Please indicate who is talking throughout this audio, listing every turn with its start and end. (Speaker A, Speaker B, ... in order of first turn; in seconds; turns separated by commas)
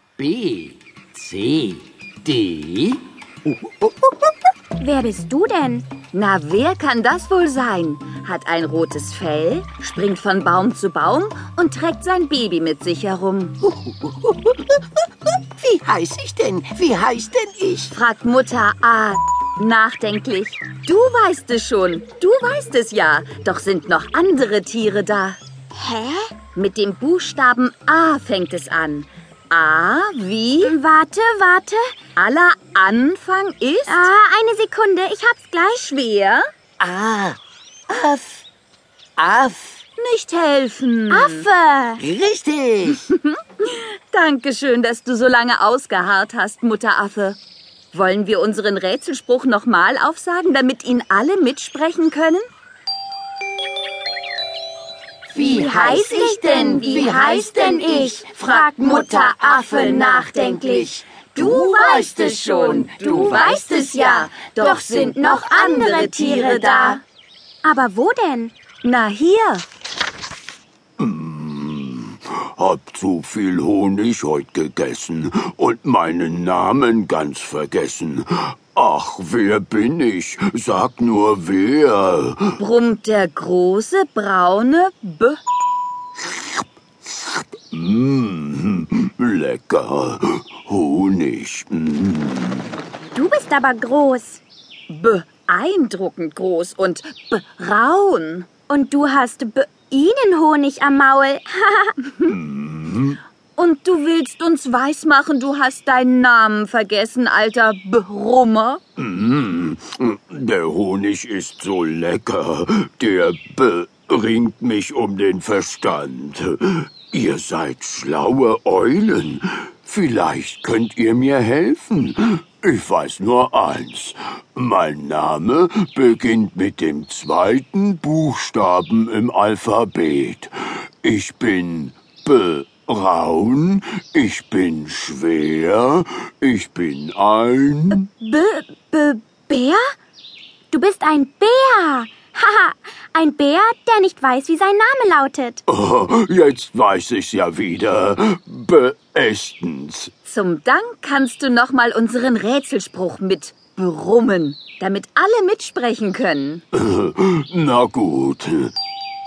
Speaker A: 0.2-3.5, Speaker B: 4.8-5.9, Speaker C: 6.1-13.6, Speaker A: 13.7-14.7, Speaker A: 15.6-17.9, Speaker C: 17.9-25.4, Speaker B: 25.7-26.3, Speaker C: 26.5-30.7, Speaker B: 30.6-31.9, Speaker C: 32.1-34.1, Speaker B: 33.9-35.9, Speaker C: 35.7-36.4, Speaker A: 36.8-37.4, Speaker A: 37.9-38.4, Speaker A: 39.2-39.8, Speaker C: 40.0-41.5, Speaker B: 41.1-42.0, Speaker A: 42.0-43.0, Speaker C: 42.9-47.4, Speaker C: 47.9-52.5, Speaker C: 55.3-67.0, Speaker B: 55.4-59.1, Speaker B: 59.8-60.9, Speaker B: 63.0-67.0, Speaker B: 67.6-68.5, Speaker C: 68.8-69.6, Speaker D: 71.0-82.6, Speaker C: 82.6-85.4, Speaker D: 86.2-92.7, Speaker B: 93.1-94.4, Speaker C: 94.9-98.5, Speaker B: 98.7-101.9, Speaker D: 102.2-103.2, Speaker C: 103.6-108.8, Speaker D: 109.0-138.1, Speaker B: 137.9-139.9, Speaker B: 140.7-145.6, Speaker D: 145.7-150.1, Speaker C: 150.2-156.6, Speaker D: 156.7-158.7